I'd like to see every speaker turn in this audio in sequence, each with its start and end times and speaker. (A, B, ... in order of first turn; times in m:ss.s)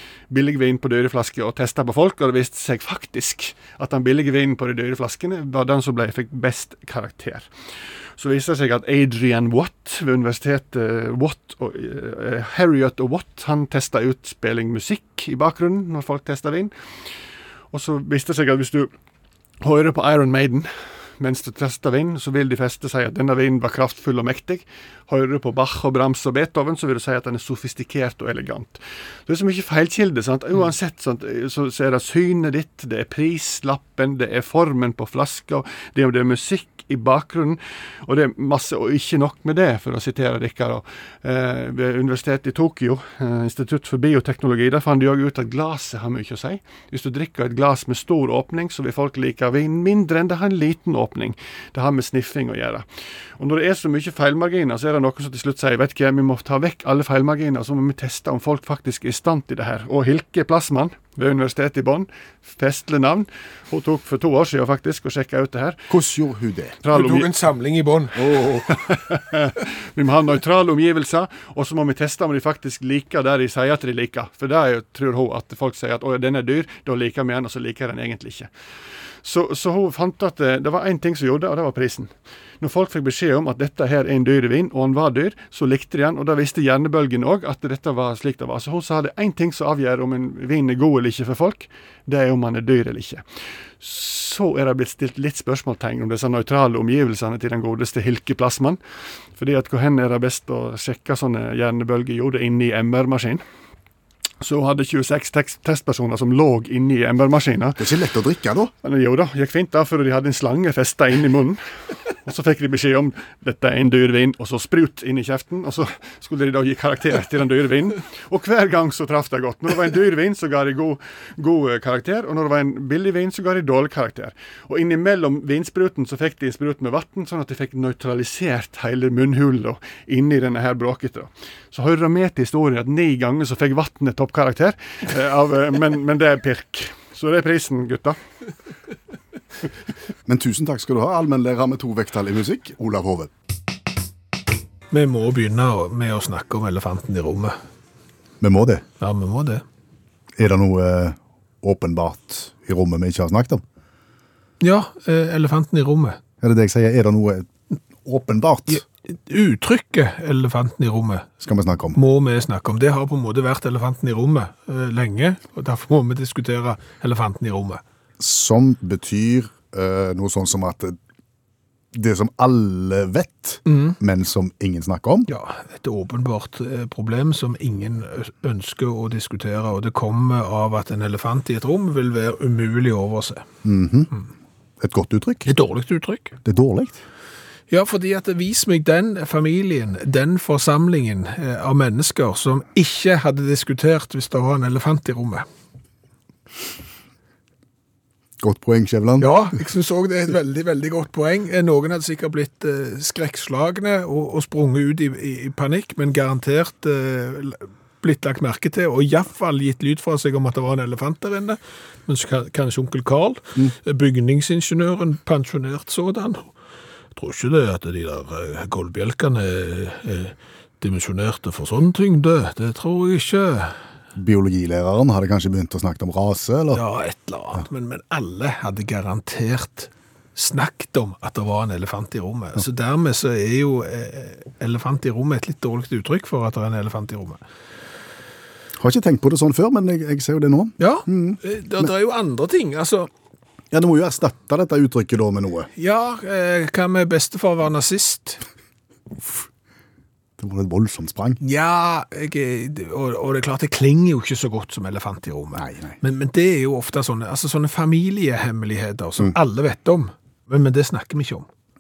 0:00.3-0:07.5 A
0:08.2-0:16.7 A
0:17.7-0:18.9 A
0:19.6-0:52.9 A
0:53.4-1:05.8 A
1:05.9-1:06.8 B
1:06.8-1:07.3 A
1:06.9-1:08.6 C
1:08.2-1:08.8 B
1:08.7-1:18.5 A
1:19.2-1:33.2 A
1:33.8-1:38.8 A
1:39.4-1:43.4 A
1:44.4-1:48.0 A
1:47.8-1:48.7 B
1:48.8-1:51.6 A
1:52.2-2:18.2 A
2:20.3-2:23.3 B
2:24.9-2:27.6 C
2:28.4-2:28.8 B
2:29.0-2:29.6 C
2:30.4-2:33.6 B
2:34.6-2:36.2 C
2:36.4-2:37.5 B
2:38.0-2:38.8 B
2:38.7-2:41.3 C
2:41.4-2:42.0 B
2:42.0-2:47.8 C
2:48.2-2:51.0 B
2:51.9-2:55.3 B
2:53.7-2:54.0 C
2:55.3-3:03.4 C
3:03.6-3:04.1 B
3:04.8-3:05.5 B
3:05.5-3:06.4 C
3:06.4-3:07.0 B
3:07.7-3:15.4 C
3:18.4-3:19.3 B
3:19.2-3:36.5 C
3:37.2-3:43.8 C
3:44.2-3:46.8 B
3:46.7-3:57.4 C
3:58.8-4:01.9 B
4:00.8-4:03.1 C
4:03.7-4:05.7 B
4:05.8-4:08.4 C
4:10.4-4:11.4 B
4:11.4-4:21.5 C
4:15.6-4:16.0 B